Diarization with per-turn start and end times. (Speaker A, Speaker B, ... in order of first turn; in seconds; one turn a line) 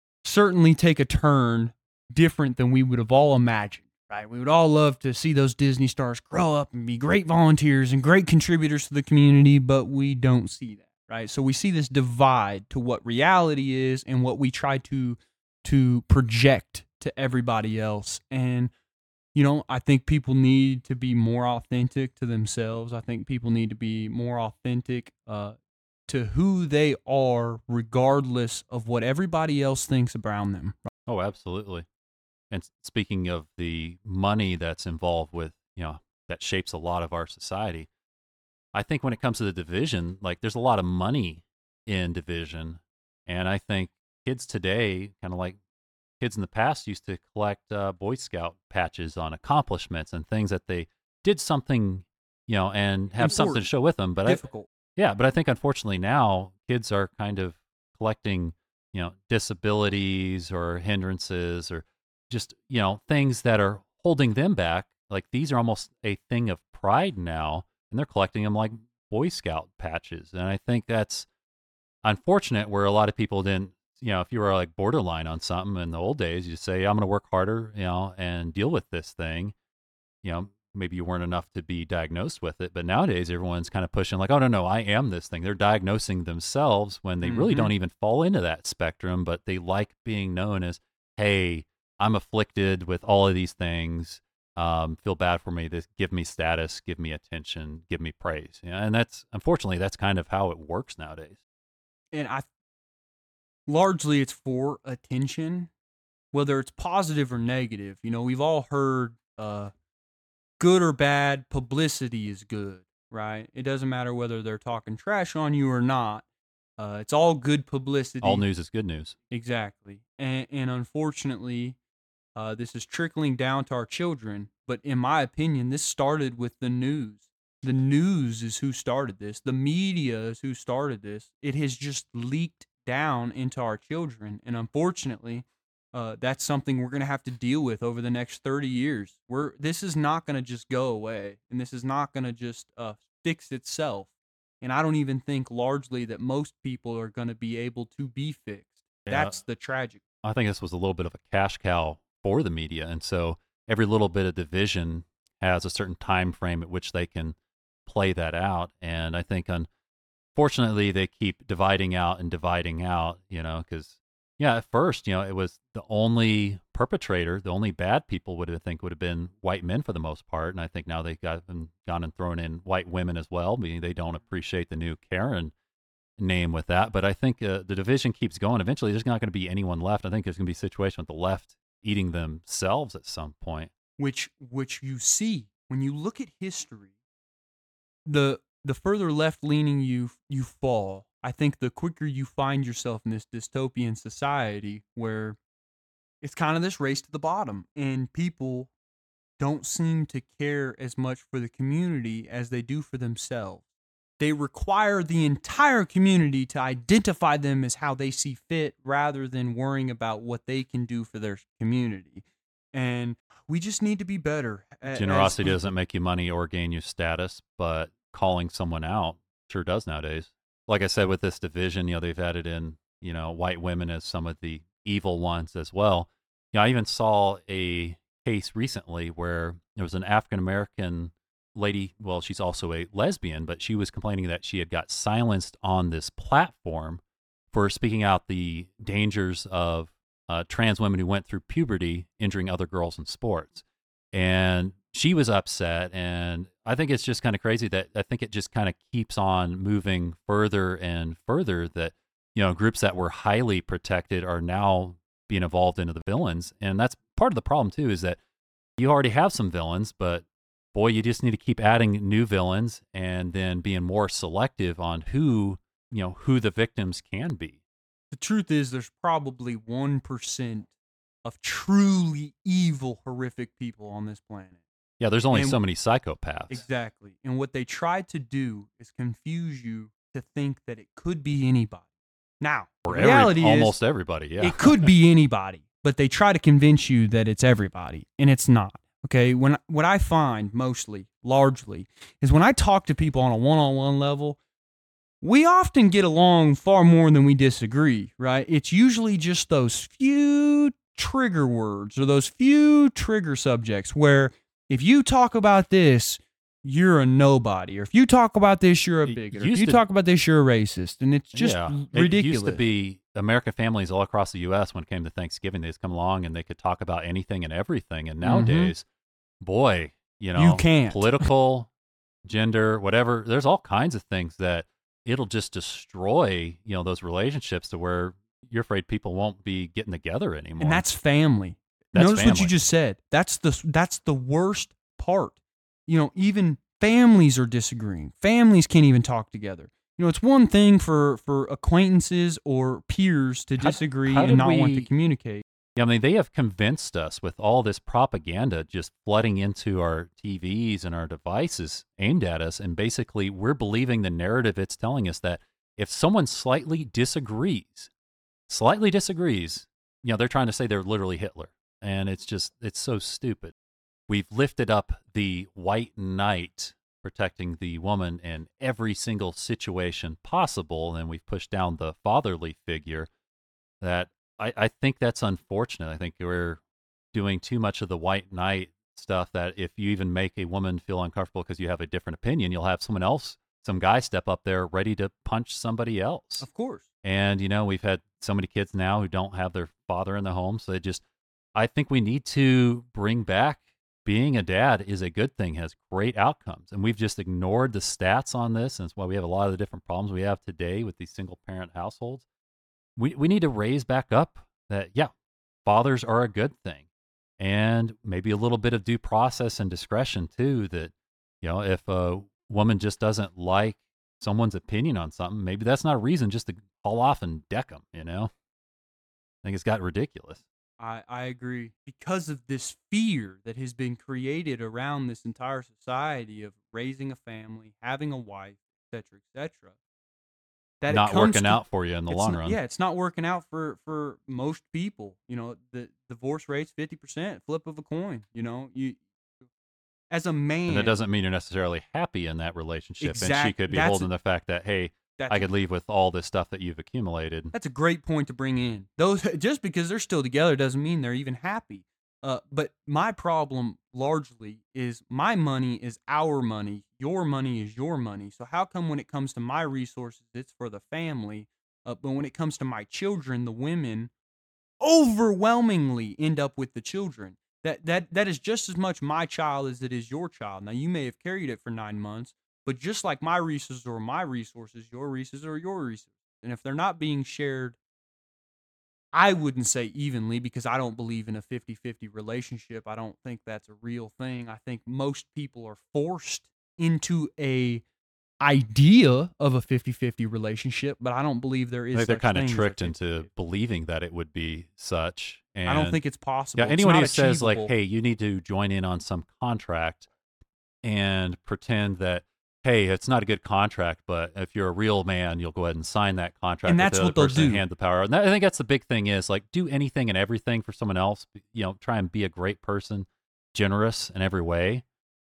Speaker A: 0.2-18.7
Speaker A: 19.3-25.6
Speaker A: 26.1-30.9
Speaker B: 31.1-31.9
Speaker B: 32.5-37.9
Speaker B: 38.7-45.6
Speaker B: 46.2-54.4
Speaker A: 53.2-53.6
Speaker A: 54.2-54.7
Speaker B: 55.0-71.3
Speaker B: 72.0-79.5
Speaker B: 80.2-101.4
Speaker A: 87.2-87.7
Speaker A: 102.1-102.5
Speaker A: 103.7-105.7
Speaker A: 106.3-109.7
Speaker A: 110.6-116.2
Speaker A: 116.8-118.4
Speaker B: 118.2-119.2
Speaker A: 119.3-121.8
Speaker A: 122.3-144.1
Speaker A: 144.6-150.0
Speaker B: 149.1-149.4
Speaker B: 150.2-159.7
Speaker B: 160.3-175.5
Speaker B: 176.2-183.7
Speaker A: 184.0-186.9
Speaker A: 188.1-195.4
Speaker A: 196.2-198.7
Speaker A: 199.4-203.6
Speaker A: 204.2-215.6
Speaker B: 214.9-258.2
Speaker B: 258.8-267.6
Speaker A: 268.1-270.7
Speaker A: 271.2-274.6
Speaker B: 275.0-276.6
Speaker A: 275.3-275.6
Speaker A: 276.5-281.8
Speaker A: 282.4-283.8
Speaker B: 282.8-284.9
Speaker A: 284.4-294.4
Speaker A: 295.2-312.6
Speaker B: 309.1-309.8
Speaker B: 311.3-318.8
Speaker A: 318.2-318.7
Speaker B: 319.4-321.7
Speaker A: 320.4-321.3
Speaker B: 322.2-330.8
Speaker A: 330.6-345.4
Speaker B: 331.9-332.5
Speaker B: 343.6-344.9
Speaker B: 345.8-357.9
Speaker B: 358.5-363.5
Speaker B: 364.1-373.1
Speaker B: 373.8-376.6
Speaker B: 377.1-386.4
Speaker A: 386.4-386.8
Speaker B: 387.0-391.0
Speaker B: 391.5-402.2
Speaker B: 403.0-405.1
Speaker B: 405.6-406.8
Speaker B: 407.4-418.3
Speaker B: 419.4-420.4
Speaker A: 420.8-429.7
Speaker A: 430.8-439.0
Speaker B: 430.9-432.6
Speaker A: 440.1-440.9
Speaker B: 440.7-447.5
Speaker A: 443.0-444.1
Speaker A: 445.2-445.5
Speaker A: 447.5-464.1
Speaker A: 464.8-477.8
Speaker A: 479.1-487.8
Speaker A: 488.4-493.1
Speaker B: 491.9-496.0
Speaker A: 495.6-497.7
Speaker B: 496.6-500.1
Speaker B: 500.8-514.8
Speaker A: 506.6-507.6